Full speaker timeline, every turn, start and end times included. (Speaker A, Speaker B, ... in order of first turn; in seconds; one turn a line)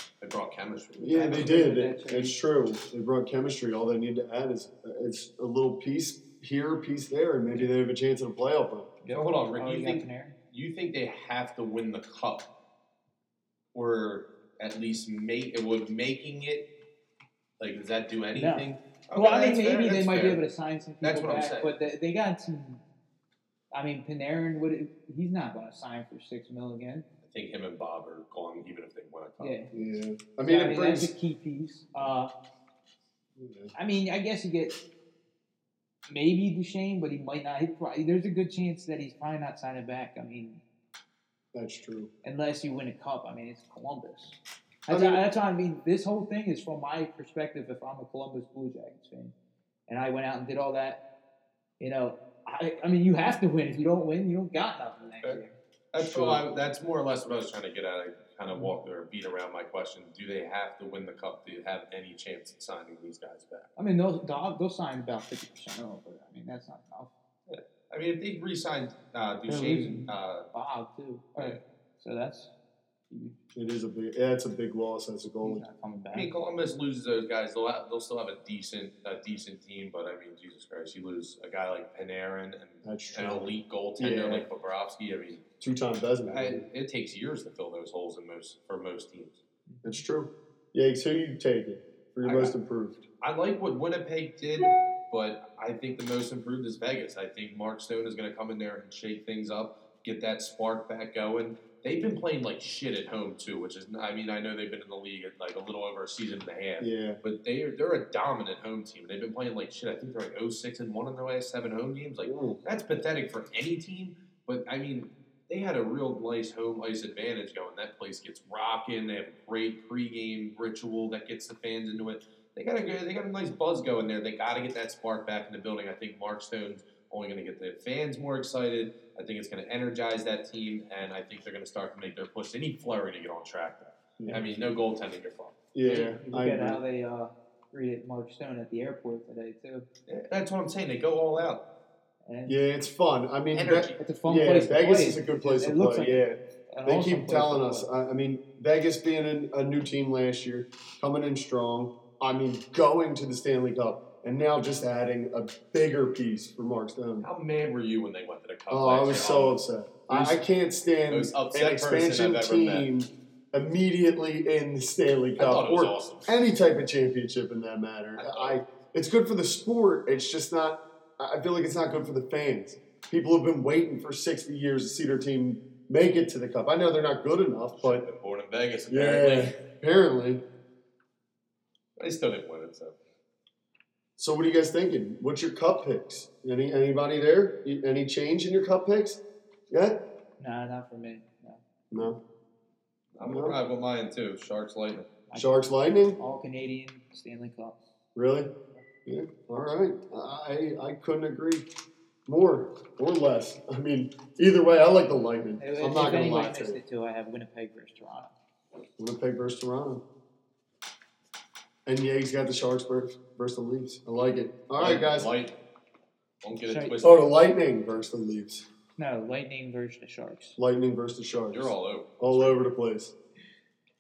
Speaker A: 0.2-1.5
Speaker B: 1.0-8.9
Speaker C: 1.1-2.4
Speaker C: 9.0-10.4
Speaker A: 9.1-12.5
Speaker A: 13.7-16.7
Speaker A: 17.6-20.4
Speaker C: 18.3-22.8
Speaker A: 21.0-21.7
Speaker C: 23.7-27.1
Speaker A: 27.3-29.6
Speaker C: 29.4-29.7
Speaker B: 29.7-31.1
Speaker C: 30.4-32.3
Speaker B: 33.4-33.7
Speaker C: 33.8-34.8
Speaker C: 36.1-40.6
Speaker B: 41.5-42.1
Speaker C: 42.2-49.4
Speaker B: 44.9-45.3
Speaker C: 49.9-51.0
Speaker C: 51.8-56.5
Speaker A: 55.9-63.7
Speaker C: 63.8-67.1
Speaker A: 67.5-70.5
Speaker C: 69.5-72.5
Speaker C: 73.1-73.4
Speaker B: 73.5-75.7
Speaker C: 75.4-76.3
Speaker A: 76.1-85.4
Speaker B: 82.8-84.5
Speaker B: 85.6-86.7
Speaker A: 86.3-89.4
Speaker C: 89.7-90.0
Speaker B: 89.8-93.0
Speaker A: 92.2-92.5
Speaker A: 93.2-136.1
Speaker B: 106.8-107.2
Speaker B: 112.2-112.6
Speaker B: 134.2-134.5
Speaker B: 135.7-136.8
Speaker C: 135.8-139.9
Speaker A: 140.1-141.7
Speaker C: 142.2-142.6
Speaker B: 142.5-157.3
Speaker A: 143.5-144.0
Speaker C: 144.0-147.9
Speaker A: 157.2-160.4
Speaker B: 158.7-178.0
Speaker A: 161.1-162.9
Speaker A: 165.4-166.4
Speaker A: 168.2-168.6
Speaker A: 177.8-179.6
Speaker B: 178.9-180.4
Speaker A: 182.0-183.0
Speaker B: 184.2-190.0
Speaker C: 190.4-191.6
Speaker B: 191.9-192.2
Speaker A: 193.2-195.1
Speaker B: 193.2-193.6
Speaker C: 195.3-197.8
Speaker B: 195.3-196.2
Speaker B: 198.2-201.7
Speaker B: 202.3-206.8
Speaker C: 205.6-208.3
Speaker B: 209.0-210.1
Speaker B: 211.9-215.3
Speaker A: 214.8-215.6
Speaker A: 216.4-217.3
Speaker C: 216.7-217.0
Speaker B: 217.0-218.7
Speaker C: 219.0-220.6
Speaker B: 220.6-223.1
Speaker A: 221.5-222.7